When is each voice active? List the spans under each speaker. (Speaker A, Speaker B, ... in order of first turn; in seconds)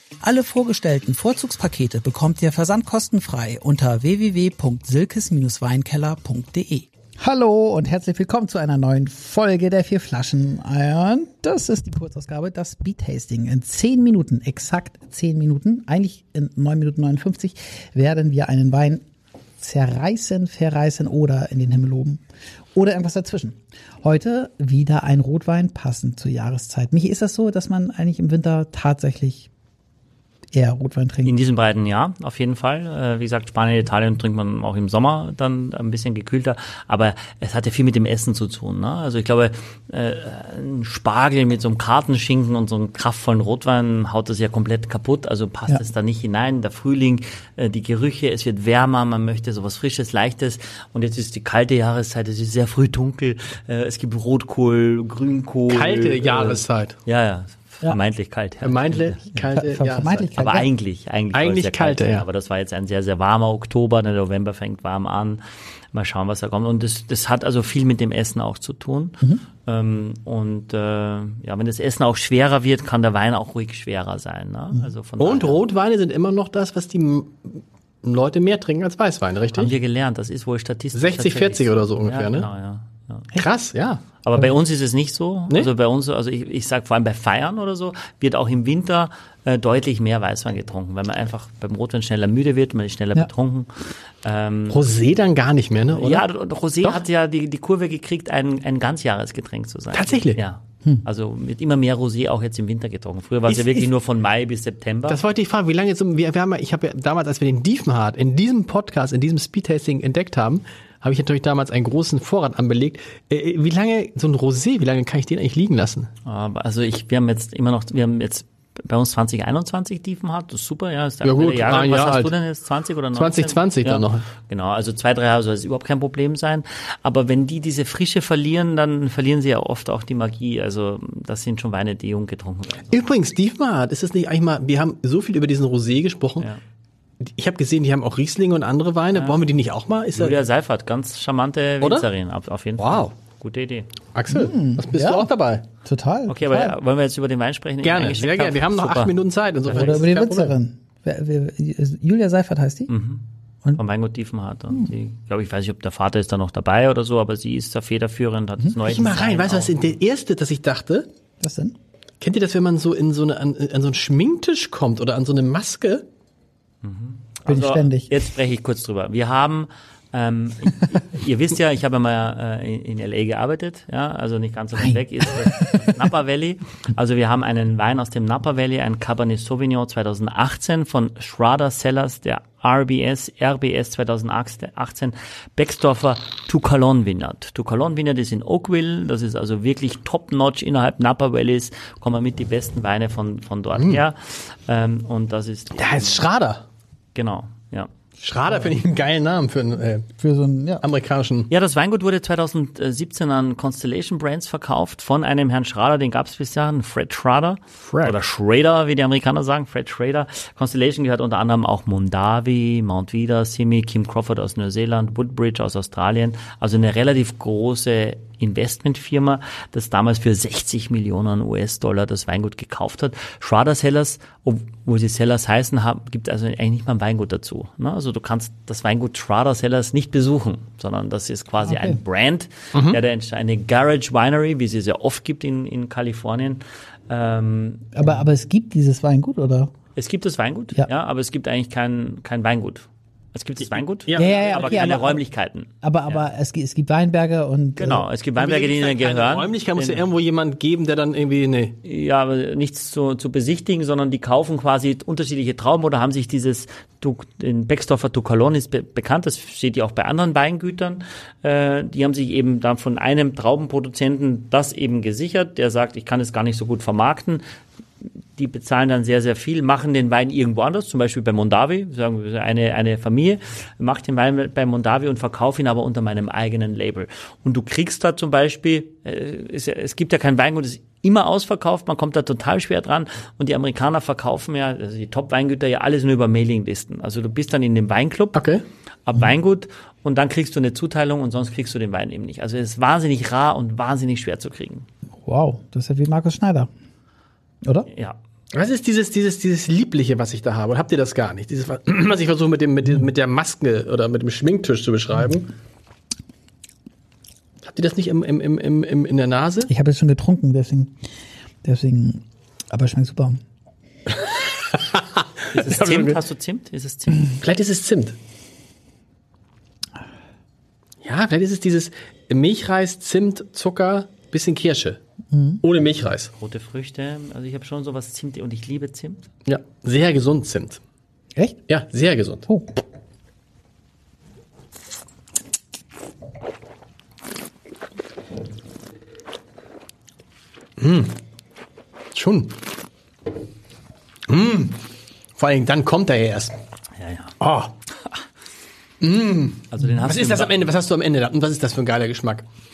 Speaker A: 0.2-19.0, 19.6-22.2, 22.8-29.5, 30.5-31.4, 59.5-60.7, 144.3-145.3, 145.8-146.8, 149.8-152.9, 161.4-161.8, 167.5-168.1, 174.8-176.1, 200.2-200.8, 231.6-232.0, 237.9-239.7, 244.2-245.2, 245.8-248.1, 295.3-296.7, 297.6-297.9, 309.7-311.0, 311.6-313.4, 325.3-325.6
Speaker B: 31.2-59.5, 60.4-65.4, 65.9-75.6, 79.5-83.3, 84.2-94.8, 95.9-105.2, 116.2-133.0, 139.2-139.4, 140.2-143.9, 146.3-150.1, 152.9-160.0, 166.8-196.2, 197.2-197.9, 201.5-238.3, 239.9-246.3, 247.8-250.1, 251.8-267.4, 268.1-288.4, 289.1-294.9, 297.9-298.2, 315.5-317.4, 326.4-329.3, 347.0-347.3, 349.7-350.6
Speaker C: 55.7-57.0, 58.6-60.4, 61.3-62.3, 75.2-79.7, 80.9-82.5, 83.4-84.0, 94.7-96.2, 99.9-100.4, 103.5-103.9, 105.1-116.1, 121.2-122.3, 123.2-124.3, 132.9-136.5, 137.2-140.4, 141.8-142.1, 142.8-143.1, 144.2-145.7, 147.8-150.6, 158.8-161.1, 162.2-166.0, 193.8-194.0, 195.7-196.6, 198.2-200.1, 200.8-201.5, 207.8-208.2, 232.7-233.0, 244.1-245.1, 248.4-251.8, 288.3-288.6, 298.5-305.5, 307.6-309.7, 314.7-316.2, 317.4-318.2, 321.0-325.0, 325.6-326.3, 329.5-330.8, 331.7-332.5, 340.8-341.2, 342.1-342.5, 344.3-344.8, 345.4-346.6, 347.4-347.7, 349.0-352.5